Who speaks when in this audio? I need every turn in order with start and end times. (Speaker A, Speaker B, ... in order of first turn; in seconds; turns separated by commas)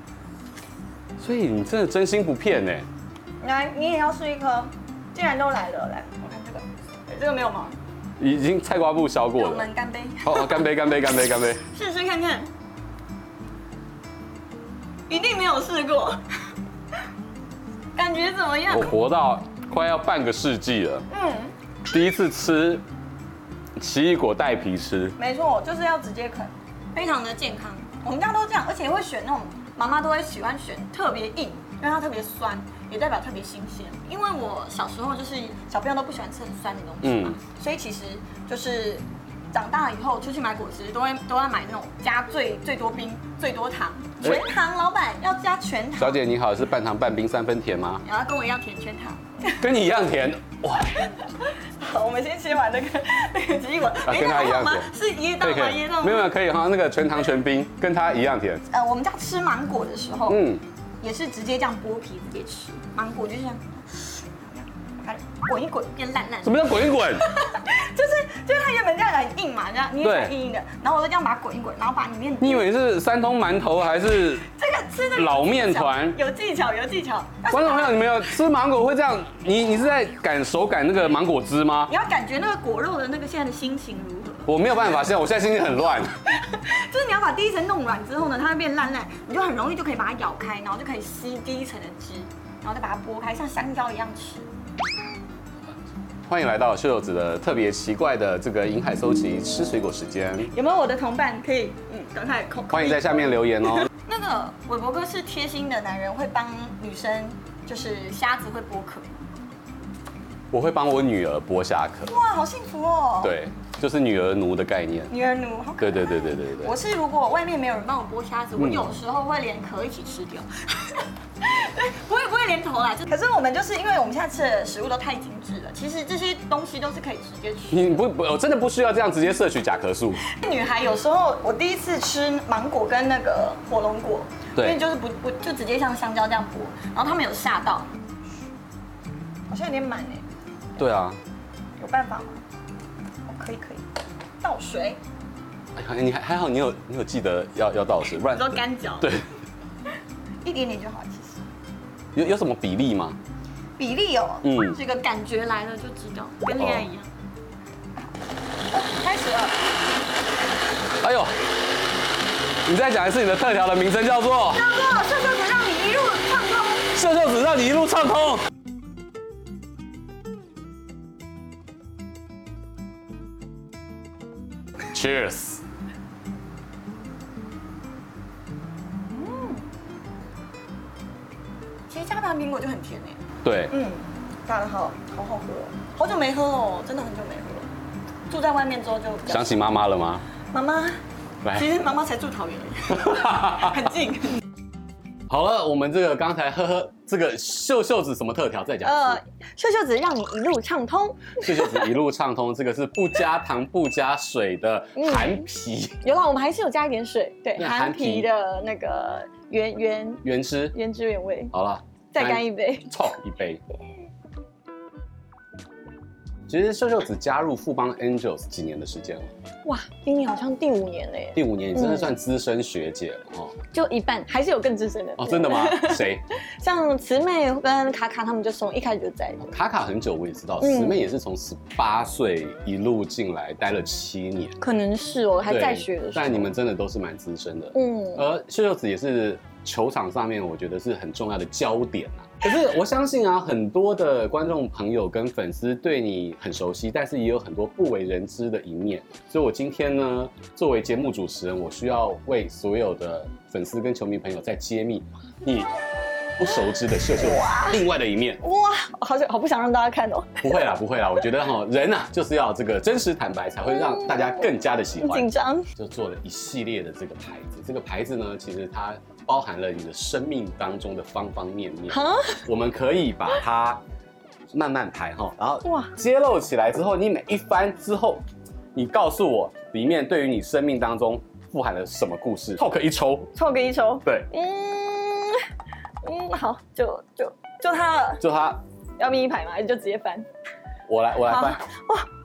Speaker A: 1.2-2.9, Speaker B: 3.4-7.8, Speaker A: 8.2-9.7, Speaker B: 9.3-10.7, Speaker A: 10.2-11.6, Speaker B: 11.7-12.5, Speaker B: 15.1-16.2, Speaker B: 17.9-18.9, Speaker A: 18.7-21.1, Speaker B: 21.1-21.5, Speaker A: 21.9-22.8, Speaker A: 23.8-25.1, Speaker B: 25.2-46.2, Speaker A: 37.0-37.4, Speaker A: 46.0-48.0, Speaker B: 48.0-49.6, Speaker A: 49.6-51.1, Speaker B: 51.0-56.3, Speaker A: 54.0-58.6, Speaker B: 58.7-60.4, Speaker A: 60.3-60.6, Speaker B: 61.0-72.7, Speaker A: 66.4-67.3, Speaker A: 70.0-70.3, Speaker A: 72.4-74.5, Speaker B: 74.4-78.1, Speaker A: 75.1-76.2, Speaker A: 77.5-81.9, Speaker B: 81.9-84.5, Speaker A: 84.5-86.2, Speaker B: 86.3-94.5, Speaker A: 96.3-100.5, Speaker B: 100.5-109.2, Speaker A: 102.7-103.9, Speaker A: 110.5-112.1, Speaker B: 112.1-113.3, Speaker A: 113.2-115.1, Speaker B: 115.1-127.9, Speaker A: 115.8-116.7, Speaker A: 118.6-118.9, Speaker A: 127.7-130.2, Speaker B: 130.2-137.9, Speaker A: 134.6-134.8, Speaker B: 139.5-140.2, Speaker A: 140.8-141.2, Speaker B: 141.8-142.4, Speaker B: 143.3-143.8, Speaker B: 144.4-145.0, Speaker A: 145.8-149.3, Speaker B: 148.2-149.2, Speaker B: 150.4-151.4, Speaker A: 152.1-153.2, Speaker B: 153.8-157.1, Speaker A: 154.4-154.8, Speaker A: 156.6-156.9, Speaker B: 158.7-159.6, Speaker A: 161.0-161.3, Speaker A: 162.6-164.7, Speaker B: 164.5-166.9, Speaker A: 166.9-168.5, Speaker A: 174.9-175.6, Speaker B: 179.1-179.7, Speaker B: 181.9-187.7, Speaker A: 183.4-183.7, Speaker B: 188.3-189.7, Speaker A: 189.3-190.2, Speaker B: 190.5-191.0, Speaker B: 191.5-194.4, Speaker A: 192.9-193.8, Speaker A: 195.3-199.2, Speaker B: 198.8-201.8, Speaker A: 201.4-206.0, Speaker B: 204.9-205.4, Speaker B: 206.0-211.5, Speaker A: 207.6-208.3, Speaker A: 210.2-210.7, Speaker A: 211.5-213.6, Speaker B: 212.1-212.9, Speaker A: 216.5-219.3, Speaker B: 219.7-222.1, Speaker A: 221.3-223.5, Speaker B: 223.7-229.5, Speaker A: 225.2-226.2, Speaker A: 229.4-234.6, Speaker B: 230.6-231.0, Speaker B: 234.6-236.5, Speaker A: 235.5-255.7, Speaker B: 237.7-238.2, Speaker A: 256.4-258.4, Speaker B: 257.1-257.8, Speaker B: 258.4-260.5, Speaker A: 260.4-273.8, Speaker B: 263.7-265.7, Speaker B: 271.9-272.4, Speaker A: 274.5-278.2, Speaker B: 275.6-275.9, Speaker A: 278.7-283.3, Speaker B: 283.3-285.5, Speaker B: 286.0-288.2, Speaker A: 288.2-288.6, Speaker B: 289.0-290.2, Speaker A: 290.9-291.6, Speaker B: 291.3-292.1